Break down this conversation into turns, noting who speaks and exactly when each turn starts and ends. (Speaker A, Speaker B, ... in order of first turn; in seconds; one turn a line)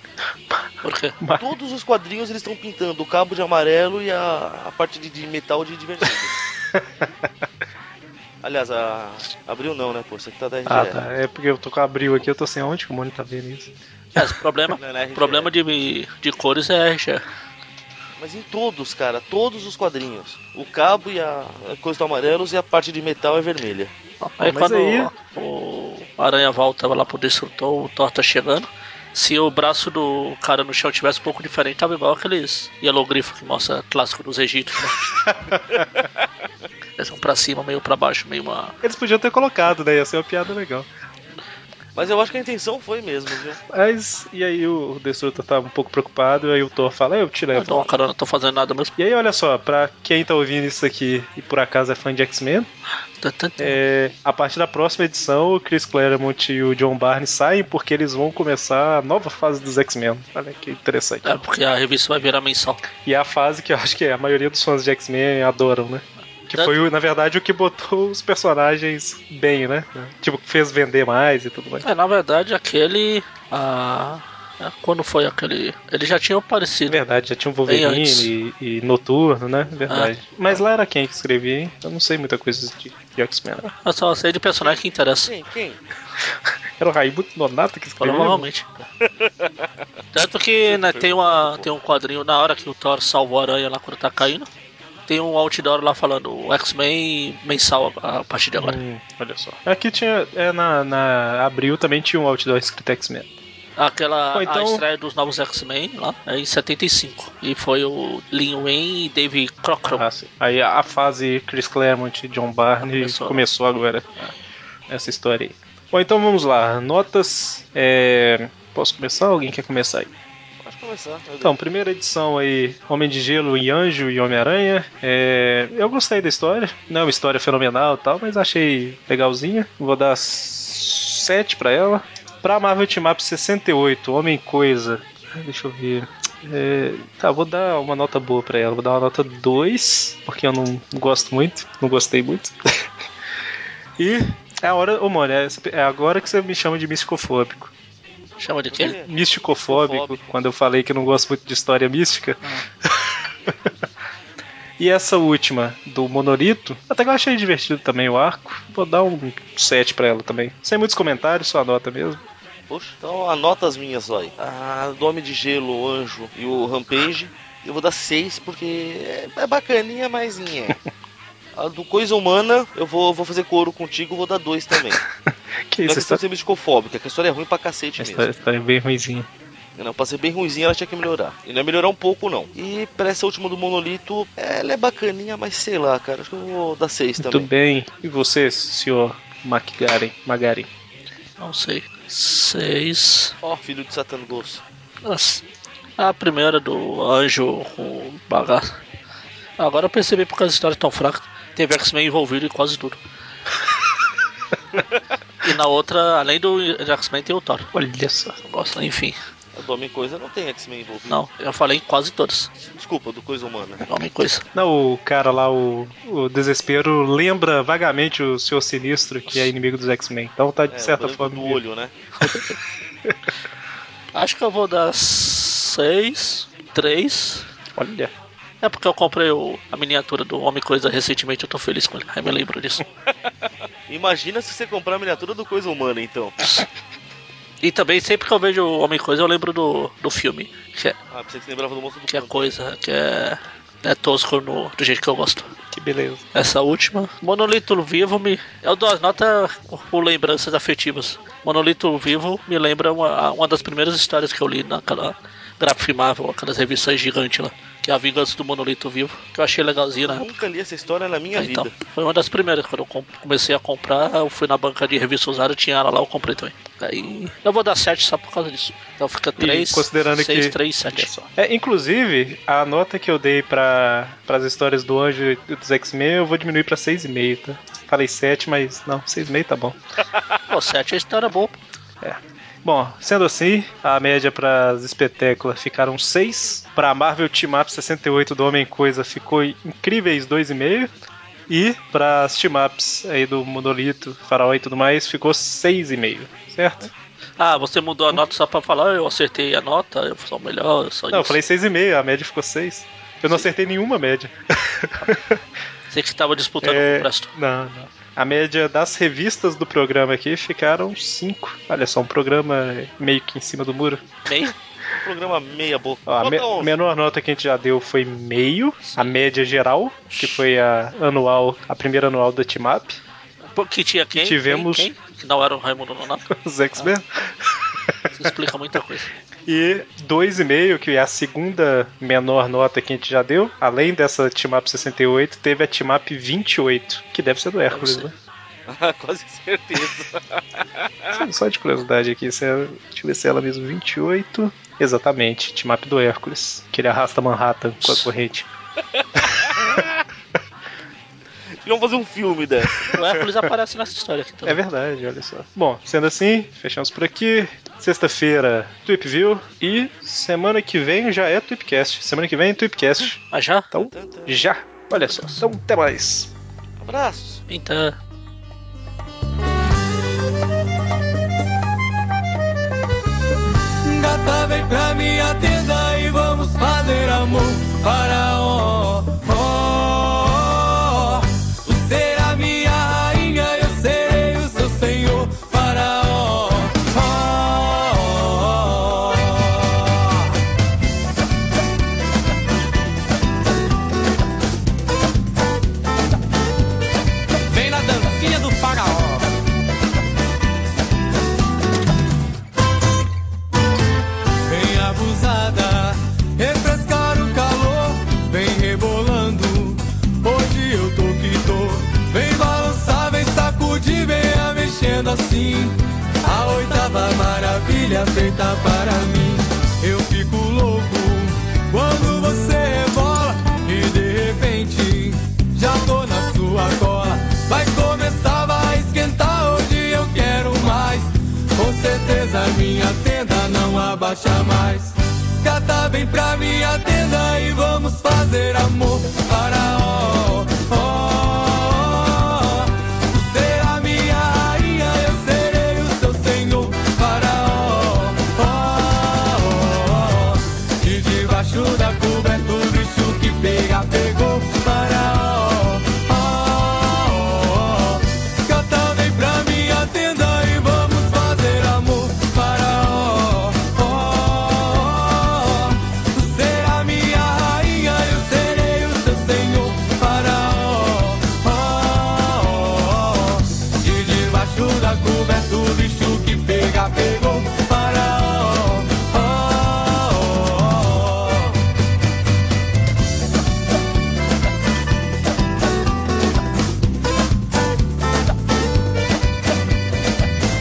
Speaker A: 0.8-1.2
Speaker B: 1.4-6.4
Speaker C: 6.7-7.3
Speaker B: 8.4-11.0
Speaker C: 10.7-14.2
Speaker A: 14.2-17.2
Speaker B: 14.8-15.5
Speaker B: 18.2-23.9
Speaker A: 24.2-35.0
Speaker C: 24.4-25.1
Speaker C: 35.3-35.6
Speaker A: 37.0-38.8
Speaker C: 38.8-40.9
Speaker B: 42.0-43.6
Speaker C: 43.7-47.9
Speaker A: 47.5-49.0
Speaker C: 49.0-52.7
Speaker A: 53.2-53.8
Speaker C: 53.6-61.4
Speaker A: 61.2-62.8
Speaker C: 63.0-71.8
Speaker A: 71.8-77.0
Speaker C: 76.9-83.7
Speaker A: 77.7-78.3
Speaker A: 83.8-85.3
Speaker B: 84.6-85.8
Speaker C: 86.8-88.5
Speaker A: 88.0-88.7
Speaker B: 89.0-89.7
Speaker A: 90.1-94.5
Speaker B: 90.7-91.7
Speaker A: 95.1-98.8
Speaker C: 98.6-103.3
Speaker A: 103.8-110.1
Speaker C: 104.3-104.8
Speaker C: 109.9-114.2
Speaker A: 112.8-113.5
Speaker C: 114.9-120.1
Speaker B: 120.6-121.6
Speaker C: 121.4-142.6
Speaker C: 144.0-147.7
Speaker A: 148.4-149.0
Speaker B: 148.7-149.1
Speaker C: 149.0-153.7
Speaker B: 149.7-150.2
Speaker C: 154.8-162.2
Speaker B: 162.7-170.8
Speaker B: 171.6-175.1
Speaker C: 175.7-176.2
Speaker B: 175.8-178.3
Speaker C: 178.0-179.3
Speaker B: 179.8-187.5
Speaker C: 187.2-190.7
Speaker A: 191.4-193.3
Speaker B: 193.4-194.6
Speaker A: 195.0-195.4
Speaker A: 196.0-198.7
Speaker A: 199.6-203.0
Speaker A: 205.4-207.7
Speaker C: 207.7-208.4
Speaker A: 208.4-209.2
Speaker B: 209.5-211.2
Speaker A: 211.1-212.5
Speaker B: 212.7-213.8
Speaker A: 213.9-214.4
Speaker C: 214.5-221.6
Speaker B: 220.7-221.9
Speaker A: 224.1-227.5
Speaker C: 227.8-228.1
Speaker A: 228.6-232.8
Speaker B: 233.9-236.5
Speaker A: 237.6-241.0
Speaker B: 241.1-242.5
Speaker A: 242.1-245.5
Speaker C: 245.7-246.2
Speaker A: 246.3-260.4
Speaker B: 260.0-261.8
Speaker A: 261.4-271.1
Speaker C: 269.4-279.8
Speaker A: 280.5-281.6
Speaker C: 282.0-290.9
Speaker C: 291.5-296.9
Speaker A: 297.4-301.4
Speaker C: 301.1-305.4
Speaker A: 305.9-307.3
Speaker C: 306.6-314.2
Speaker A: 314.3-314.5
Speaker B: 315.0-316.8
Speaker C: 316.1-323.0
Speaker A: 318.8-319.1
Speaker A: 320.1-320.4
Speaker A: 323.5-326.9
Speaker C: 324.2-324.9
Speaker C: 326.3-327.9
Speaker A: 328.1-329.1
Speaker C: 329.5-338.1
Speaker A: 337.7-338.1
Speaker B: 338.7-341.2
Speaker C: 341.1-348.5
Speaker B: 349.0-350.0
Speaker B: 351.5-353.0
Speaker A: 352.9-354.6
Speaker C: 352.9-353.5
Speaker C: 354.5-366.3
Speaker A: 363.3-363.7
Speaker B: 363.8-364.5
Speaker A: 365.0-365.4
Speaker B: 366.8-367.4
Speaker A: 367.5-368.0
Speaker D: 373.8-390.3
Speaker D: 397.5-399.3
Speaker D: 404.5-481.6